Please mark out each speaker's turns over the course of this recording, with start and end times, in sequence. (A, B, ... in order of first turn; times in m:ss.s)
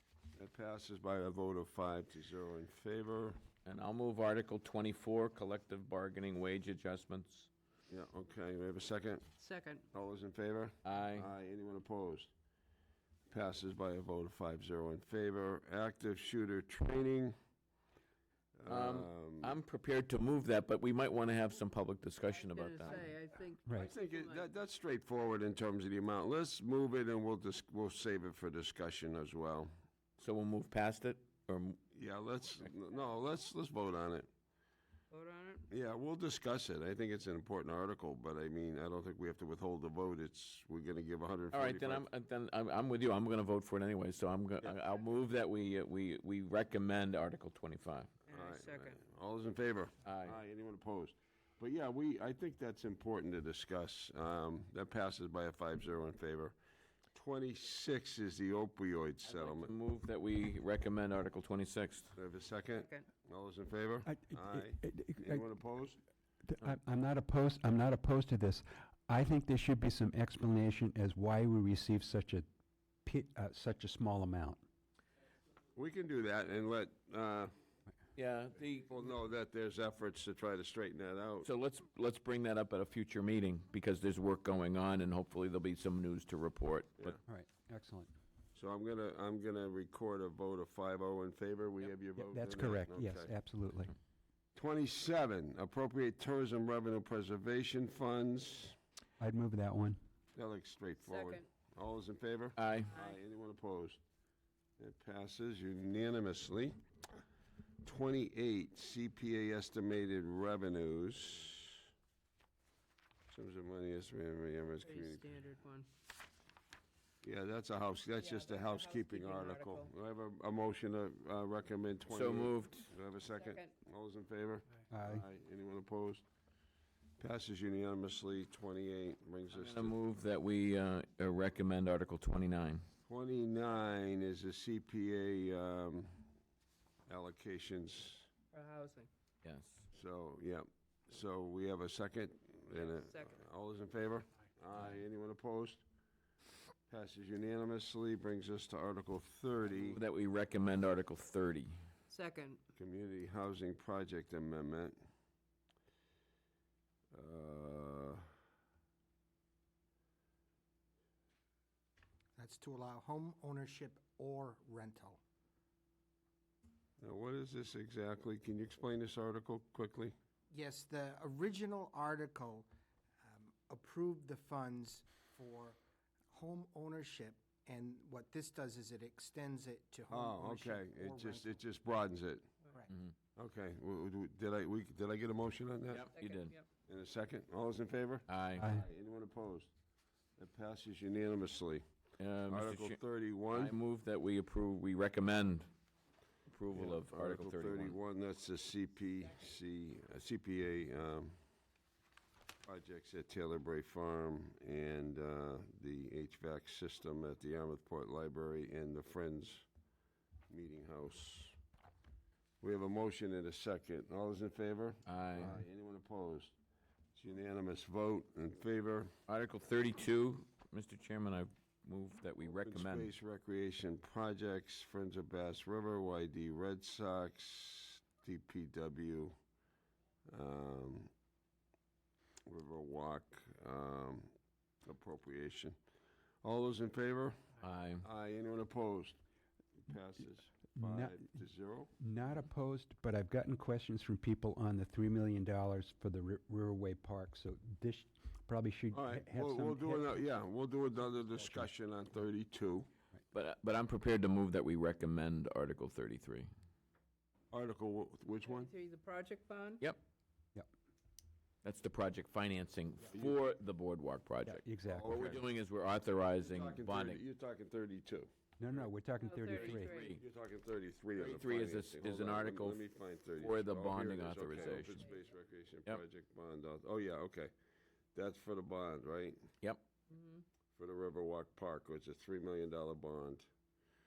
0:00.4-0:03.4 A
0:03.6-0:07.5 B
0:07.9-0:09.3 A
0:09.4-0:09.9 C
0:09.9-0:12.3 A
0:10.8-0:11.3 B
0:13.3-0:17.4 A
0:18.6-0:19.6 A
0:18.7-0:23.1 B
0:22.3-0:24.5 C
0:23.8-0:29.7 A
0:30.2-0:31.8 B
0:31.9-0:34.3 A
0:35.1-0:35.7 C
0:35.7-0:42.1 A
0:41.5-0:48.2 B
0:48.3-0:49.0 C
0:48.3-0:56.6 A
0:50.0-0:50.4 B
0:57.1-0:59.7 A
0:59.2-1:02.1 B
1:02.2-1:06.0 A
1:02.8-1:03.1 C
1:04.1-1:05.5 D
1:06.4-1:12.5 D
1:13.0-1:14.6 D
1:15.8-1:17.5 A
1:18.2-1:18.9 B
1:18.8-1:21.5 A
1:21.4-1:27.2 B
1:27.3-1:28.1 D
1:28.6-1:33.4 A
1:32.2-1:33.9 D
1:34.6-1:38.8 A
1:39.2-1:40.0 D
1:40.3-1:44.0 A
1:41.0-1:41.5 C
1:42.6-1:42.9 B
1:44.8-1:46.8 A
1:47.8-1:51.9 A
1:53.3-1:55.3 A
1:54.8-1:55.9 C
1:57.2-2:06.2 A
1:58.2-1:59.9 C
2:02.1-2:02.9 B
2:03.3-2:03.7 C
2:04.9-2:05.2 D
2:07.2-2:09.9 A
2:09.5-2:12.8 B
2:13.1-2:16.2 A
2:17.1-2:18.3 A
2:18.5-2:19.1 C
2:19.4-2:19.9 B
2:19.9-2:25.8 A
2:22.8-2:23.4 C
2:26.9-2:30.0 A
2:29.7-2:31.8 B
2:32.1-2:32.6 C
2:32.8-2:35.0 A
2:37.1-2:38.3 A
2:42.4-2:45.2 E
2:47.0-2:50.2 A
2:50.5-2:52.7 E
2:53.2-2:55.8 E
2:56.3-3:01.6 E
3:00.1-3:02.5 A
3:03.4-3:06.1 A
3:05.9-3:06.6 B
3:06.1-3:06.7 C
3:06.9-3:09.7 A
3:08.3-3:08.7 B
3:08.6-3:08.8 D
3:10.4-3:11.8 A
3:12.2-3:13.0 B
3:12.5-3:13.8 A
3:13.5-3:15.7 B
3:16.5-3:18.0 B
3:16.7-3:21.4 A
3:22.6-3:29.7 A
3:30.5-3:31.6 A
3:32.6-3:36.6 A
3:35.1-3:35.6 B
3:37.2-3:39.1 A
3:39.3-3:43.1 B
3:42.6-3:49.4 A
3:50.3-3:51.1 A
3:52.5-3:54.3 A
3:54.8-3:55.8 A
3:56.4-3:57.4 A
3:57.6-3:58.0 B
3:58.0-3:59.2 A
3:59.8-4:01.9 A
4:00.7-4:01.3 D
4:02.0-4:10.2 D
4:08.9-4:12.9 A
4:11.3-4:11.7 D
4:13.3-4:16.5 B
4:17.5-4:18.7 A
4:18.4-4:19.8 C
4:21.6-4:27.2 B
4:24.5-4:25.4 D
4:24.8-4:25.5 A
4:26.4-4:28.3 A
4:28.6-4:30.0 D
4:29.2-4:30.2 C
4:29.4-4:30.2 B
4:29.9-4:37.5 A
4:31.2-4:32.8 B
4:33.4-4:35.1 B
4:38.2-4:39.5 A
4:40.1-4:40.4 C
4:40.8-4:43.5 A